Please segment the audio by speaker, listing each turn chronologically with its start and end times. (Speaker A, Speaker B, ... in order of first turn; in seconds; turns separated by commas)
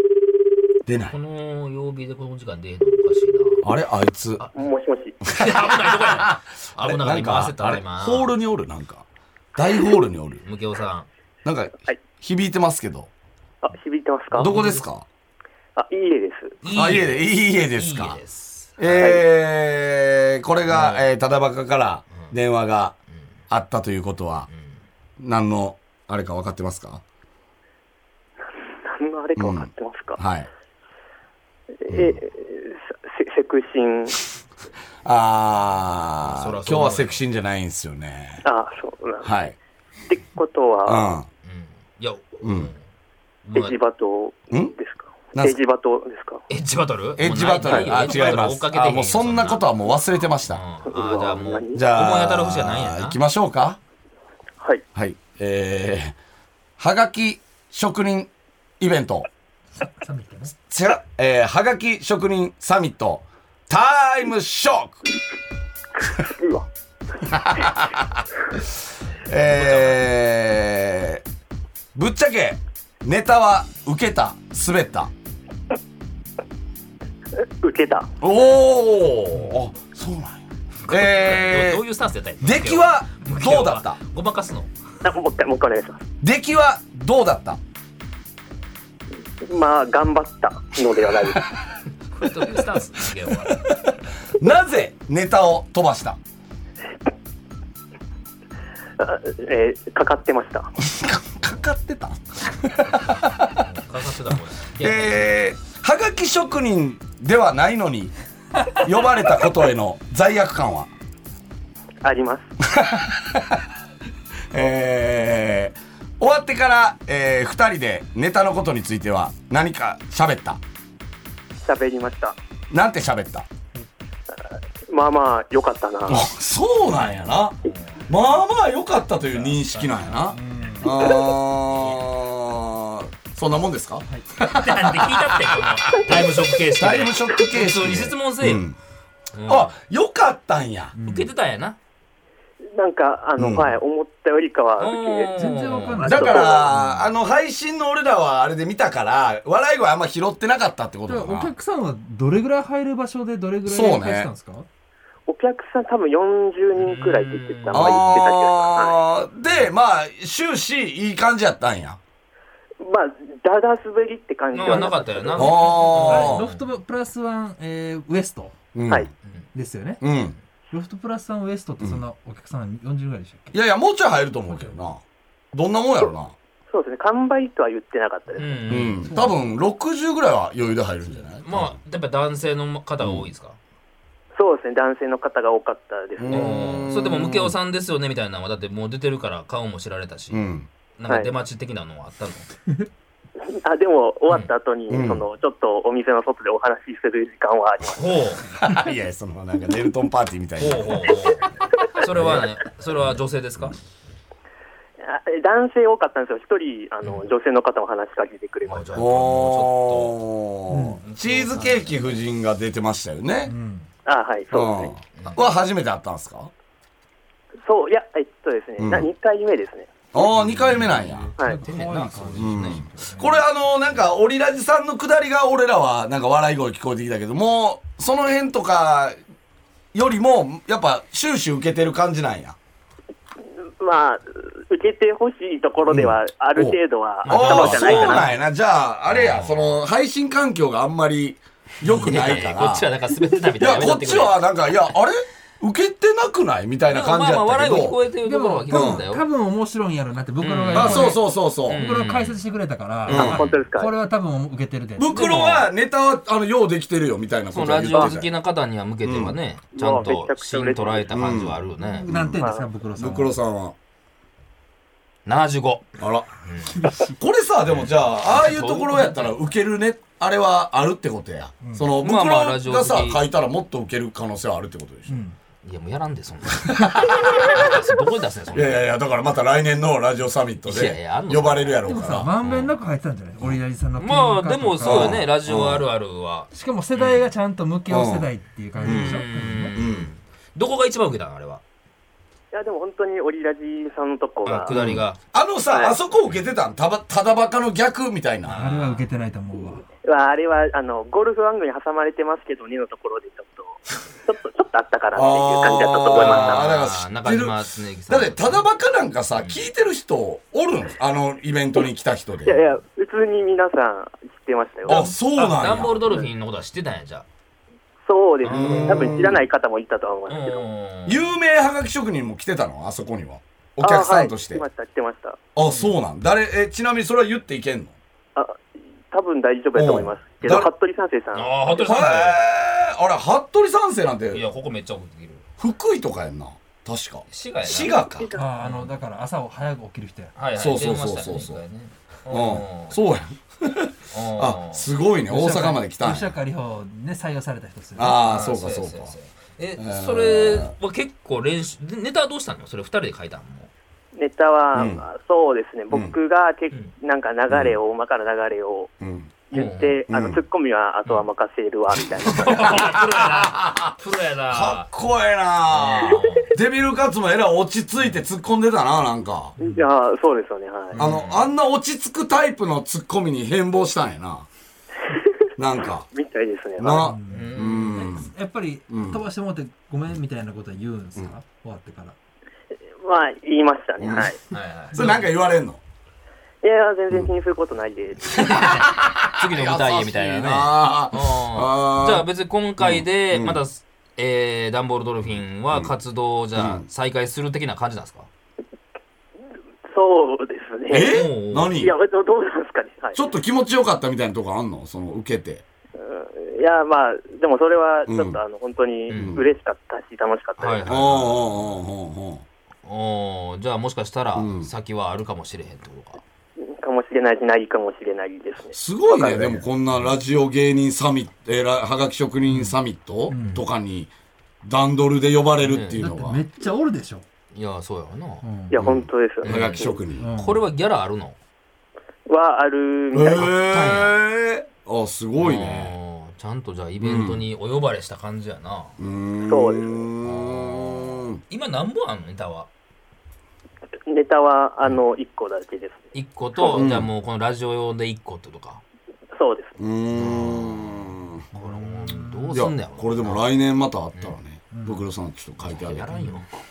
Speaker A: 0.8-1.1, Speaker B: 1.1-3.6, Speaker A: 3.6-4.4, Speaker C: 4.5-5.2, Speaker A: 5.3-9.0, Speaker B: 5.3-8.3, Speaker A: 9.6-10.4, Speaker B: 10.4-11.1, Speaker A: 11.4-13.1, Speaker C: 13.6-14.5, Speaker A: 14.3-15.0, Speaker B: 14.4-14.8, Speaker C: 15.8-16.6, Speaker B: 16.6-19.1, Speaker A: 16.7-18.2, Speaker A: 18.8-22.9, Speaker C: 18.9-19.2, Speaker B: 20.7-21.0, Speaker A: 23.5-24.5, Speaker B: 24.5-24.8, Speaker A: 25.2-27.0, Speaker C: 28.8-30.2, Speaker A: 29.4-30.5, Speaker C: 31.8-34.2, Speaker A: 31.9-32.2, Speaker A: 35.0-38.4, Speaker B: 36.3-37.2, Speaker C: 38.4-39.3, Speaker A: 39.2-39.5, Speaker C: 40.1-41.1, Speaker A: 40.9-41.3, Speaker B: 41.4-42.8, Speaker A: 42.4-42.7, Speaker B: 43.5-43.8, Speaker C: 43.5-46.4, Speaker B: 46.5-49.7, Speaker A: 47.2-50.6, Speaker C: 47.6-48.3, Speaker B: 50.5-53.2, Speaker C: 50.9-51.8, Speaker A: 51.7-53.8, Speaker A: 54.9-56.1, Speaker A: 56.8-59.3, Speaker D: 59.8-60.5, Speaker A: 60.7-65.0, Speaker C: 66.0-66.7, Speaker A: 67.2-68.2, Speaker A: 69.2-71.2, Speaker B: 69.5-70.0, Speaker A: 71.9-75.1, Speaker C: 77.6-78.1, Speaker A: 78.2-81.8, Speaker B: 80.9-84.7, Speaker A: 82.4-84.0, Speaker C: 85.0-86.0, Speaker A: 86.2-87.6, Speaker C: 89.4-91.5, Speaker B: 92.1-93.7, Speaker A: 94.4-96.2, Speaker C: 99.0-100.7, Speaker A: 100.8-103.6, Speaker B: 103.6-105.2, Speaker A: 104.8-108.1, Speaker A: 108.7-110.9, Speaker C: 112.0-112.4, Speaker A: 112.7-113.6, Speaker A: 114.5-120.6, Speaker C: 121.6-122.3, Speaker A: 122.7-123.5, Speaker C: 124.9-126.2, Speaker A: 126.1-127.6, Speaker B: 127.7-128.1, Speaker A: 128.1-138.8, Speaker B: 129.3-130.8, Speaker D: 130.3-131.1, Speaker B: 131.7-132.0, Speaker B: 134.4-138.7, Speaker B: 139.3-139.7, Speaker A: 139.4-140.9, Speaker D: 140.9-141.3, Speaker B: 141.0-141.8, Speaker C: 142.7-145.3, Speaker A: 143.4-143.8, Speaker B: 144.8-146.4, Speaker D: 145.3-147.1, Speaker C: 146.0-146.7, Speaker A: 146.1-151.5, Speaker D: 151.1-154.7, Speaker A: 153.7-154.3, Speaker C: 155.3-159.0, Speaker B: 156.7-158.2, Speaker A: 157.7-162.0, Speaker C: 162.8-165.9, Speaker B: 164.5-166.7, Speaker A: 165.3-166.5, Speaker D: 166.0-168.7, Speaker A: 168.7-169.1, Speaker D: 169.5-170.0, Speaker A: 170.0-170.3, Speaker D: 170.7-173.6, Speaker A: 173.5-175.0, Speaker D: 174.5-174.8, Speaker A: 175.5-176.3, Speaker C: 176.7-178.8, Speaker B: 178.4-179.1, Speaker A: 178.7-181.8, Speaker D: 179.0-179.4, Speaker B: 181.4-183.6, Speaker A: 183.0-183.3, Speaker C: 184.3-186.8, Speaker A: 186.2-187.5, Speaker B: 186.3-192.5, Speaker A: 190.3-190.7, Speaker C: 193.4-198.2, Speaker A: 194.9-195.2, Speaker B: 197.9-198.4, Speaker A: 198.6-201.2, Speaker B: 200.6-203.8, Speaker A: 202.1-202.5, Speaker C: 205.0-209.1, Speaker B: 208.7-210.2, Speaker A: 208.9-213.5, Speaker D: 210.7-211.0, Speaker B: 211.0-212.2, Speaker D: 213.4-213.9, Speaker C: 214.1-214.9, Speaker A: 214.5-216.5, Speaker B: 215.2-215.5, Speaker C: 217.7-219.9, Speaker A: 218.8-219.1, Speaker A: 220.1-221.3, Speaker B: 220.3-222.9, Speaker D: 220.5-223.4, Speaker C: 221.4-221.6, Speaker A: 222.3-229.2, Speaker A: 229.9-232.6, Speaker C: 233.8-238.2, Speaker A: 235.9-242.9, Speaker B: 237.2-238.4, Speaker B: 239.1-239.8, Speaker B: 241.9-244.4, Speaker A: 243.6-248.0, Speaker B: 246.9-249.2, Speaker D: 248.2-255.6, Speaker A: 248.7-249.0, Speaker B: 250.4-252.4, Speaker A: 250.7-251.8, Speaker A: 253.1-253.4, Speaker C: 253.1-253.9, Speaker A: 255.0-258.3, Speaker B: 255.2-255.6, Speaker B: 257.5-262.1, Speaker A: 259.0-259.4, Speaker C: 259.8-261.1, Speaker A: 261.1-262.4, Speaker D: 261.8-263.3, Speaker C: 262.4-262.7, Speaker A: 263.0-263.7, Speaker B: 265.2-265.9, Speaker A: 266.0-266.3, Speaker B: 266.4-266.9, Speaker D: 266.8-267.1, Speaker A: 267.2-275.2, Speaker B: 267.9-269.4, Speaker D: 271.6-271.9, Speaker B: 272.0-273.2, Speaker D: 275.1-275.4, Speaker B: 275.6-278.9, Speaker A: 276.6-277.8, Speaker A: 278.5-282.3, Speaker B: 280.6-282.7, Speaker D: 281.8-285.2, Speaker B: 284.0-287.3, Speaker A: 284.8-285.8, Speaker D: 286.5-289.7, Speaker A: 287.9-288.3, Speaker B: 288.8-291.6, Speaker A: 288.8-289.2, Speaker A: 289.7-290.1, Speaker C: 292.5-294.7, Speaker B: 294.4-295.2, Speaker A: 294.7-298.6, Speaker C: 295.7-295.9, Speaker B: 298.4-299.1, Speaker D: 298.5-299.8, Speaker C: 300.0-306.7, Speaker A: 305.1-312.6, Speaker B: 306.1-308.6, Speaker B: 309.4-309.6, Speaker C: 312.4-315.1, Speaker A: 314.8-316.1, Speaker B: 314.9-317.2, Speaker C: 318.1-320.6, Speaker B: 318.4-319.3, Speaker A: 318.4-319.4, Speaker B: 320.3-321.3, Speaker A: 321.1-324.6, Speaker C: 323.8-325.4, Speaker A: 325.6-327.9, Speaker B: 325.7-325.9, Speaker C: 329.1-331.8, Speaker A: 329.7-330.7, Speaker B: 331.3-332.4, Speaker A: 331.8-334.4, Speaker B: 334.3-335.4, Speaker A: 335.6-338.3, Speaker B: 337.3-337.9, Speaker C: 338.0-338.4, Speaker D: 338.4-340.3, Speaker B: 338.6-338.9, Speaker B: 340.4-343.0, Speaker A: 340.6-341.6, Speaker A: 342.3-346.3, Speaker B: 344.1-344.9, Speaker D: 345.3-348.2, Speaker A: 347.9-349.1, Speaker B: 348.1-353.7, Speaker A: 349.8-350.7, Speaker C: 354.1-358.9, Speaker A: 354.7-355.0, Speaker A: 357.5-357.8, Speaker A: 359.0-359.3, Speaker C: 359.5-363.1, Speaker B: 359.5-360.0, Speaker A: 360.1-360.4, Speaker B: 362.2-364.9, Speaker A: 362.4-363.9, Speaker A: 364.5-369.5, Speaker B: 365.7-366.5, Speaker D: 369.6-369.8, Speaker C: 369.6-371.0, Speaker A: 370.9-374.5, Speaker B: 371.0-371.5, Speaker A: 375.6-376.1, Speaker C: 376.1-377.1, Speaker A: 376.8-378.3, Speaker D: 376.9-382.1, Speaker B: 377.3-378.1, Speaker A: 378.9-379.2, Speaker C: 383.0-384.4, Speaker A: 384.0-384.3, Speaker B: 384.5-385.3, Speaker A: 384.9-385.8, Speaker C: 386.6-388.8, Speaker B: 388.3-398.3, Speaker A: 388.4-392.3, Speaker A: 392.8-393.6, Speaker A: 396.6-396.8, Speaker C: 399.9-403.2, Speaker A: 400.9-401.9, Speaker B: 401.1-401.8, Speaker A: 403.1-405.6, Speaker C: 406.0-411.0, Speaker A: 408.1-408.4, Speaker B: 409.1-409.4, Speaker A: 409.1-409.4, Speaker B: 410.6-411.8, Speaker A: 410.9-412.4, Speaker B: 412.8-416.2, Speaker A: 414.3-414.7, Speaker C: 416.6-419.6, Speaker A: 418.7-424.1, Speaker D: 423.3-423.6, Speaker A: 424.6-426.4, Speaker B: 425.6-426.2, Speaker D: 425.9-427.2, Speaker B: 427.5-428.4, Speaker D: 428.4-428.8, Speaker C: 428.7-430.0, Speaker A: 428.8-430.3, Speaker B: 429.4-431.4, Speaker D: 430.1-430.6, Speaker C: 432.3-433.5, Speaker A: 433.1-435.9, Speaker B: 433.3-434.2, Speaker B: 435.4-439.0, Speaker A: 437.0-437.4, Speaker A: 439.0-441.4, Speaker C: 439.4-440.1, Speaker B: 440.2-442.7, Speaker C: 444.1-446.8, Speaker B: 446.1-448.8, Speaker A: 446.7-447.1, Speaker C: 449.4-449.7, Speaker A: 449.8-451.4, Speaker B: 450.1-453.4, Speaker D: 451.5-452.5, Speaker A: 452.5-456.1, Speaker D: 454.7-455.0, Speaker B: 455.6-456.5, Speaker D: 456.1-456.4